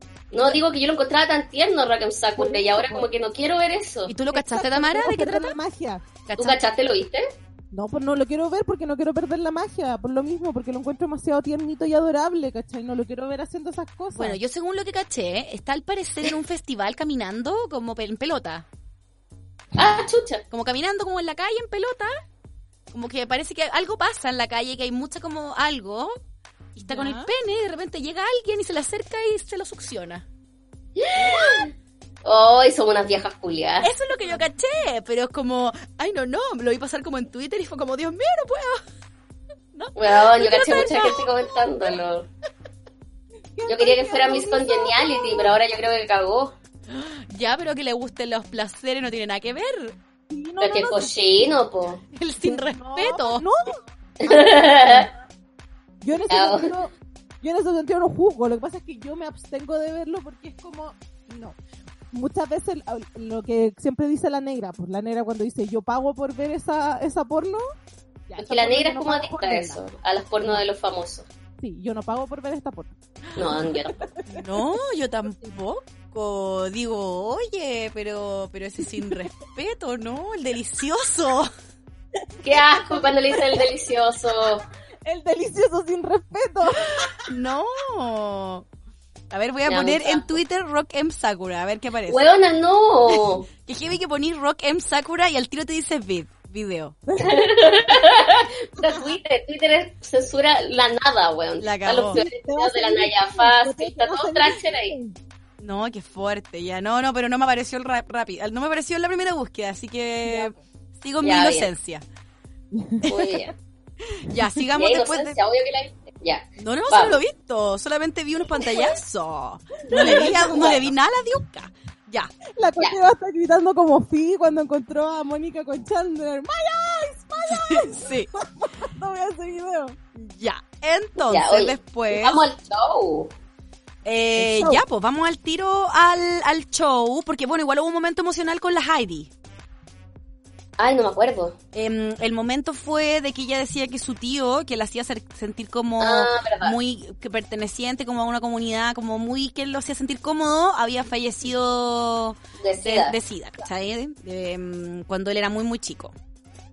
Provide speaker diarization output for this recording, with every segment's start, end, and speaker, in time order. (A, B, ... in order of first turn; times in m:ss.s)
0:00.3-0:04.1 A
0:02.4-0:03.1 B
0:04.1-0:05.6 C
0:04.3-0:06.1 B
0:06.3-0:06.6 C
0:06.4-0:07.2 A
0:07.7-0:14.4 B
0:14.2-0:18.7 C
0:19.8-0:20.4 A
0:20.5-0:22.1 C
0:22.9-0:26.2 C
0:26.8-0:30.2 C
0:26.8-0:27.3 B
0:31.0-0:31.7 A
0:31.2-0:31.5 C
0:32.2-0:33.9 A
0:33.8-0:38.8 C
0:34.2-0:34.4 B
0:39.7-0:42.0 C
0:40.0-0:42.3 A
0:43.6-0:45.5 B
0:43.7-0:46.6 A
0:46.9-0:50.0 C
0:50.3-0:51.1 B
0:50.6-0:52.0 A
0:52.1-0:53.4 C
0:52.4-0:55.1 B
0:54.2-0:55.1 A
0:56.0-1:01.6 B
0:56.3-0:56.7 A
1:02.1-1:07.6 B
1:08.3-1:09.8 B
1:08.4-1:11.3 A
1:11.6-1:14.4 B
1:13.4-1:14.0 A
1:14.3-1:21.5 C
1:22.4-1:23.7 B
1:22.4-1:24.6 A
1:25.1-1:27.2 B
1:27.2-1:28.7 C
1:29.3-1:32.2 C
1:29.7-1:30.4 A
1:32.1-1:33.5 A
1:33.1-1:37.0 C
1:37.1-1:38.0 B
1:37.2-1:45.0 A
1:38.8-1:39.1 B
1:41.6-1:42.2 C
1:42.1-1:45.2 B
1:45.6-1:52.0 C
1:50.2-1:50.6 B
1:51.2-1:51.7 A
1:52.7-1:53.5 B
1:53.0-1:53.5 A
1:54.0-1:55.4 C
1:54.8-1:57.2 A
1:56.6-2:02.3 C
1:59.8-2:00.8 B
1:59.9-2:00.8 A
2:02.6-2:10.0 B
2:07.5-2:08.3 C
2:10.2-2:12.4 C
2:11.2-2:13.3 A
2:14.0-2:19.3 C
2:14.4-2:14.8 B
2:20.8-2:21.6 A
2:21.7-2:36.2 C
2:26.0-2:26.8 A
2:32.6-2:33.2 A